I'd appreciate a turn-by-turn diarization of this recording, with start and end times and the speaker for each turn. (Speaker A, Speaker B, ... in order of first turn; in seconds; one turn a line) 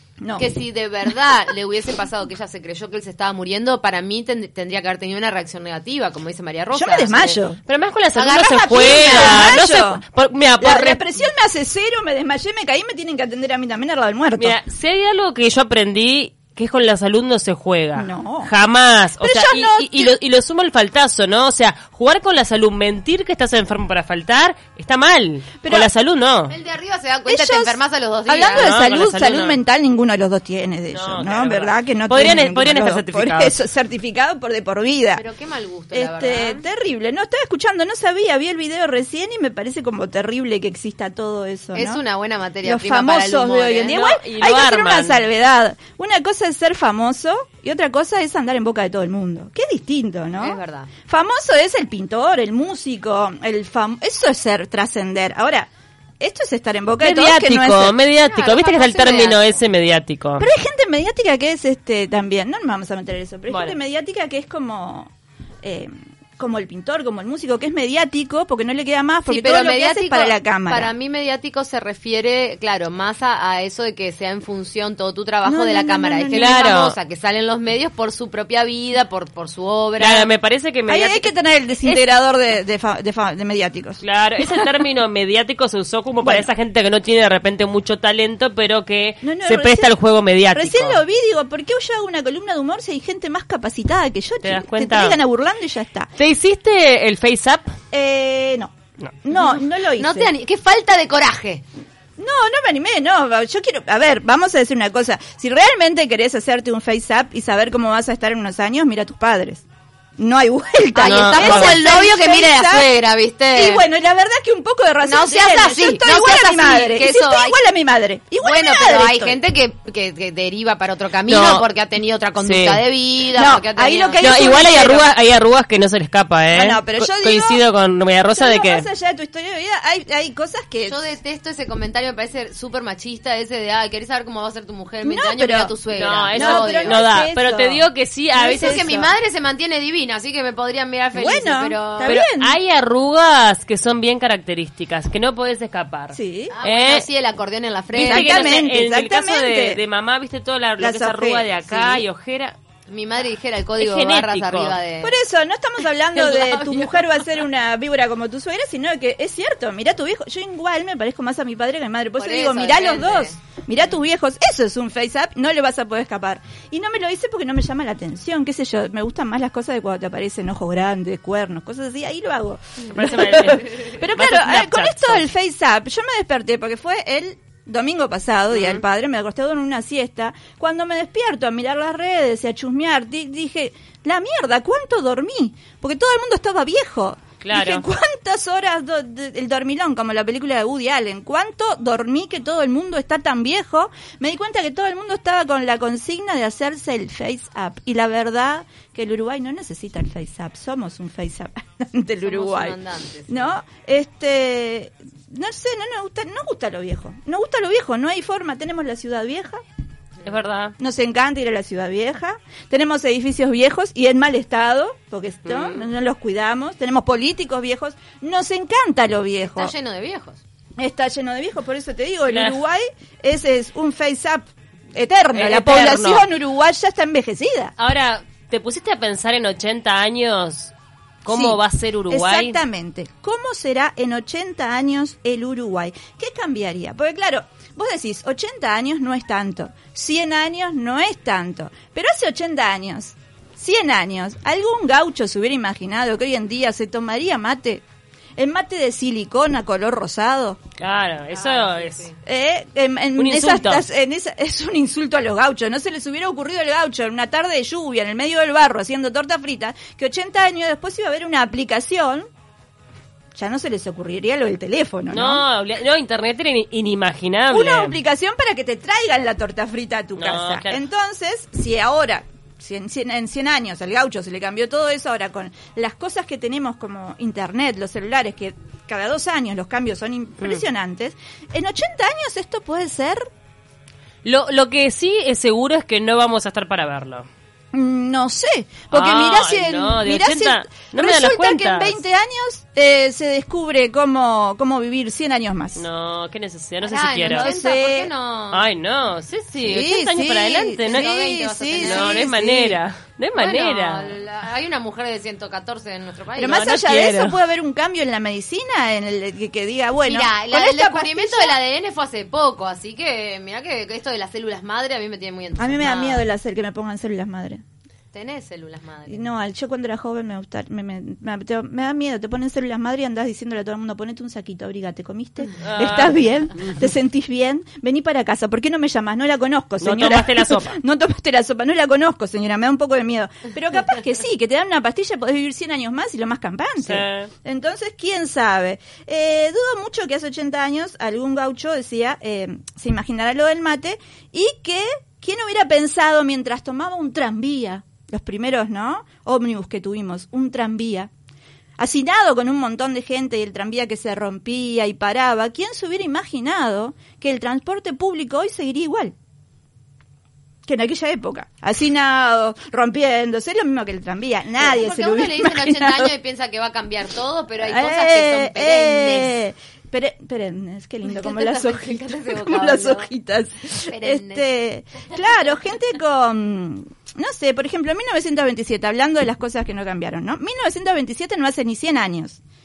Speaker A: 0.2-0.5
Speaker B: 0.4-7.4
Speaker A: 6.7-7.6
Speaker C: 7.7-11.2
Speaker B: 8.2-9.5
Speaker A: 8.8-10.0
Speaker A: 10.6-14.6
Speaker C: 14.4-26.6
Speaker A: 18.0-18.5
Speaker A: 19.2-20.2
Speaker A: 25.6-25.9
Speaker B: 26.5-28.8
Speaker A: 27.3-35.2
Speaker C: 28.5-29.6
Speaker C: 30.9-33.6
Speaker B: 35.1-36.7
Speaker A: 35.9-42.0
Speaker B: 41.8-44.1
Speaker A: 42.6-58.0
Speaker C: 43.9-45.2
Speaker B: 50.4-50.9
Speaker C: 57.0-60.5
Speaker B: 58.2-59.4
Speaker A: 60.4-65.1
Speaker C: 63.5-63.8
Speaker A: 65.6-70.9
Speaker B: 69.3-80.3
Speaker A: 75.5-76.7
Speaker C: 76.3-77.0
Speaker C: 80.0-81.3
Speaker A: 80.9-84.0
Speaker C: 84.0-91.0
Speaker A: 89.2-90.0
Speaker A: 90.5-96.1
Speaker C: 94.4-95.2
Speaker C: 96.2-97.8
Speaker A: 97.9-100.3
Speaker B: 99.3-101.6
Speaker A: 102.2-109.7
Speaker A: 110.2-112.9
Speaker B: 111.0-113.9
Speaker C: 111.0-111.8
Speaker A: 113.5-119.4
Speaker B: 115.0-117.6
Speaker B: 118.4-124.9
Speaker C: 121.3-121.7
Speaker C: 122.4-122.8
Speaker A: 123.3-125.0
Speaker C: 124.2-128.9
Speaker A: 126.5-127.6
Speaker A: 128.3-131.0
Speaker B: 130.9-137.0
Speaker A: 135.0-135.7
Speaker C: 135.9-138.8
Speaker A: 136.3-139.1
Speaker B: 138.4-142.2
Speaker A: 141.2-142.6
Speaker C: 142.0-147.1
Speaker A: 146.1-146.6
Speaker B: 146.5-148.6
Speaker C: 147.9-152.6
Speaker A: 147.9-149.8
Speaker A: 150.8-151.5
Speaker B: 151.7-152.0
Speaker B: 152.9-155.2
Speaker C: 153.8-154.8
Speaker A: 155.0-202.8
Speaker B: 156.1-157.3
Speaker B: 162.2-163.4
Speaker C: 172.9-175.3
Speaker C: 178.5-178.8
Speaker C: 187.4-187.8
Speaker B: 202.2-203.6
Speaker A: 203.3-209.6
Speaker C: 210.2-210.8
Speaker A: 210.8-219.7
Speaker C: 215.5-215.8
Speaker B: 219.4-220.4
Speaker A: 220.8-227.7
Speaker C: 222.3-222.6
Speaker C: 225.3-226.3
Speaker C: 227.8-230.7
Speaker C: 231.2-232.6
Speaker A: 231.3-247.8
Speaker A: 248.4-250.6
Speaker C: 250.8-252.1
Speaker B: 251.3-252.2
Speaker A: 252.2-262.3
Speaker C: 253.2-253.8
Speaker A: 263.4-265.4
Speaker C: 265.1-268.0
Speaker A: 267.5-283.3
Speaker C: 270.2-270.8
Speaker C: 284.2-287.3
Speaker A: 287.7-295.8
Speaker C: 288.9-292.0
Speaker C: 295.8-297.5
Speaker B: 296.8-298.6
Speaker A: 297.3-298.1
Speaker C: 298.5-301.1
Speaker A: 299.6-302.8
Speaker B: 300.8-302.4
Speaker C: 301.8-304.1
Speaker B: 303.4-306.7
Speaker A: 306.4-311.6
Speaker C: 306.5-307.4
Speaker B: 310.1-316.2
Speaker A: 315.6-317.6
Speaker B: 318.1-319.3
Speaker A: 319.1-351.1
Speaker C: 325.6-326.7
Speaker C: 329.8-330.8
Speaker C: 336.8-337.3
Speaker A: 351.8-359.1
Speaker A: 360.7-366.1
Speaker B: 364.6-369.4
Speaker A: 367.6-382.4
Speaker B: 371.1-373.1
Speaker B: 373.9-374.5